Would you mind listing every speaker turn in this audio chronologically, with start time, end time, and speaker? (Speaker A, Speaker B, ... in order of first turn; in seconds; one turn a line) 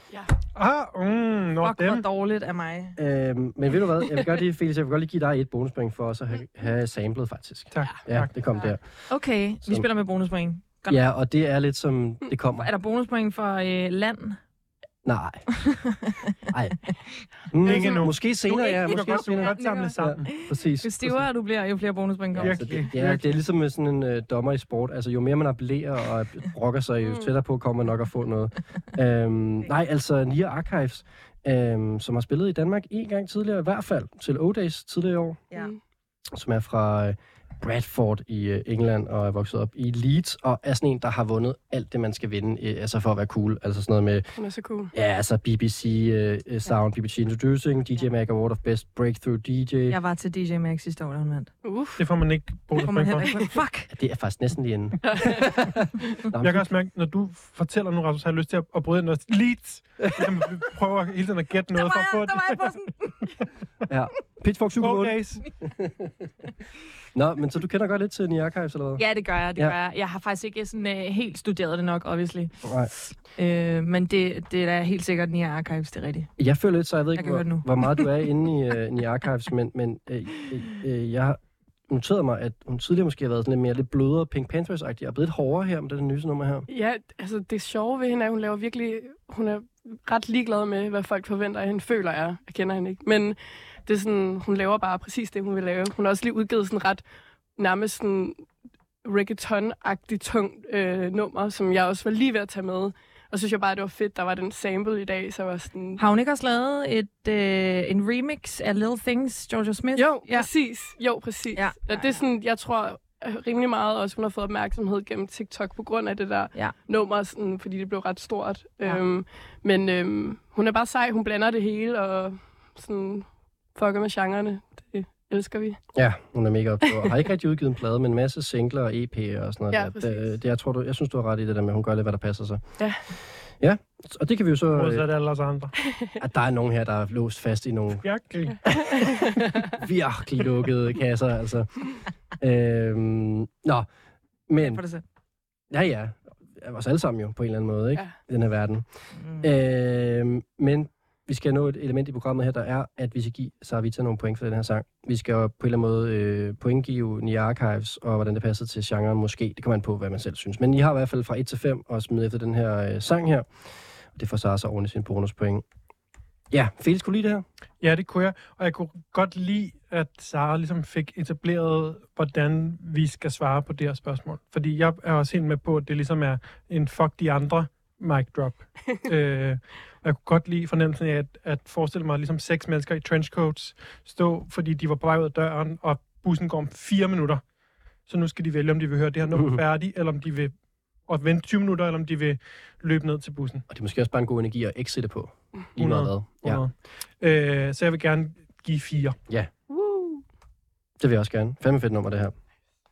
Speaker A: 0.6-2.0
Speaker B: 1.6-3.0
Speaker C: 3.0-8.8
Speaker A: 7.7-8.3
Speaker B: 9.1-11.0
Speaker C: 10.9-12.7
Speaker B: 12.6-14.4
Speaker C: 15.1-15.4
Speaker B: 15.7-16.3
Speaker C: 16.5-16.8
Speaker C: 17.5-21.2
Speaker A: 17.6-20.3
Speaker B: 19.4-23.0
Speaker D: 19.6-19.9
Speaker C: 22.4-35.4
Speaker A: 22.4-23.4
Speaker D: 27.0-27.3
Speaker D: 35.5-35.8
Speaker C: 36.3-44.2
Speaker D: 44.4-44.9
Speaker C: 44.9-50.0
Speaker B: 49.9-51.5
Speaker D: 51.6-52.0
Speaker A: 52.0-53.4
Speaker B: 52.8-53.9
Speaker C: 53.9-55.8
Speaker D: 55.0-55.4
Speaker C: 56.3-56.7
Speaker A: 56.4-62.7
Speaker B: 61.7-63.3
Speaker C: 63.9-65.2
Speaker A: 64.8-65.4
Speaker C: 65.8-66.1
Speaker C: 67.1-69.0
Speaker B: 69.0-72.6
Speaker C: 72.6-72.9
Speaker B: 73.3-76.3
Speaker C: 76.4-86.7
Speaker B: 77.2-78.1
Speaker D: 86.7-97.0
Speaker D: 97.6-98.5
Speaker D: 99.0-106.0
Speaker B: 106.0-110.5
Speaker D: 110.0-125.8
Speaker B: 111.5-112.2
Speaker C: 126.0-132.6
Speaker D: 129.7-130.3
Speaker C: 133.6-135.1
Speaker A: 134.7-135.7
Speaker C: 136.2-138.1
Speaker A: 138.0-138.6
Speaker C: 139.7-141.8
Speaker C: 142.4-143.9
Speaker C: 144.5-144.8
Speaker B: 144.6-145.0
Speaker C: 145.7-148.9
Speaker B: 149.2-149.5
Speaker C: 149.4-163.5
Speaker C: 164.2-165.7
Speaker C: 166.5-167.4
Speaker A: 167.8-187.4
Speaker A: 188.1-190.5
Speaker C: 189.3-189.6
Speaker A: 191.1-193.6
Speaker C: 193.7-196.6
Speaker A: 195.8-199.2
Speaker D: 199.7-200.2
Speaker C: 201.0-202.3